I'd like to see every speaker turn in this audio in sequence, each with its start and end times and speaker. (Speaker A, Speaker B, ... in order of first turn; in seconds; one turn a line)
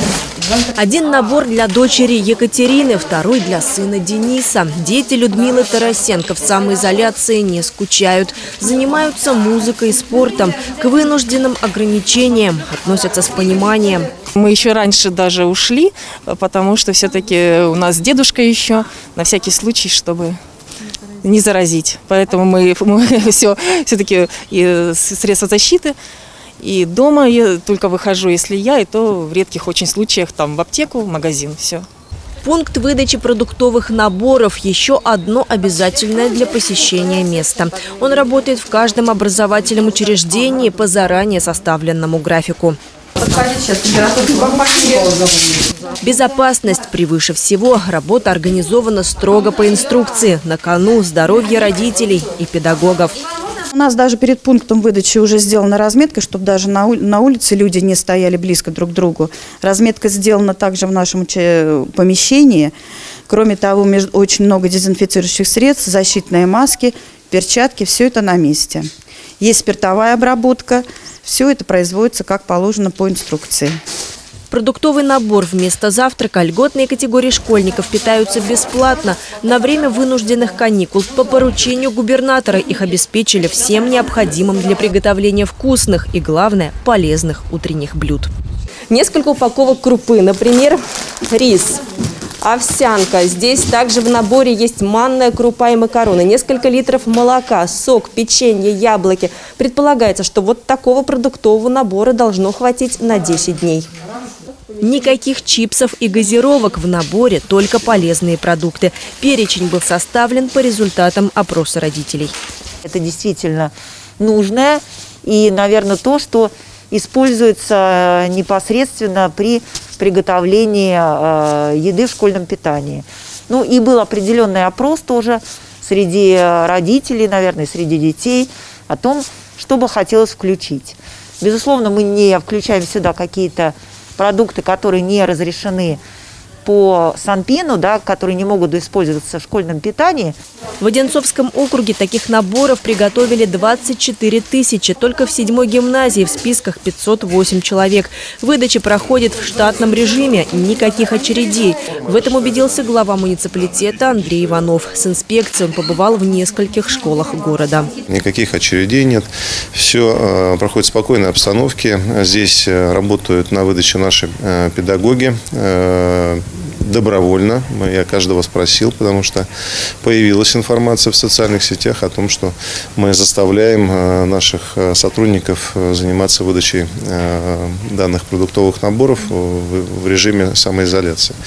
Speaker A: 0.8-14.1
Speaker B: 14.3-20.4
Speaker B: 21.2-26.0
Speaker B: 26.6-31.9
Speaker A: 32.4-42.8
Speaker A: 46.0-53.2
Speaker C: 53.7-62.7
Speaker C: 63.3-73.8
Speaker A: 74.5-88.3
Speaker A: 88.9-91.8
Speaker A: 92.4-103.9
Speaker A: 104.8-112.3
Speaker D: 112.8-136.0
Speaker D: 136.6-140.4
Speaker A: 140.8-157.9
Speaker E: 158.1-169.5
Speaker E: 170.0-181.3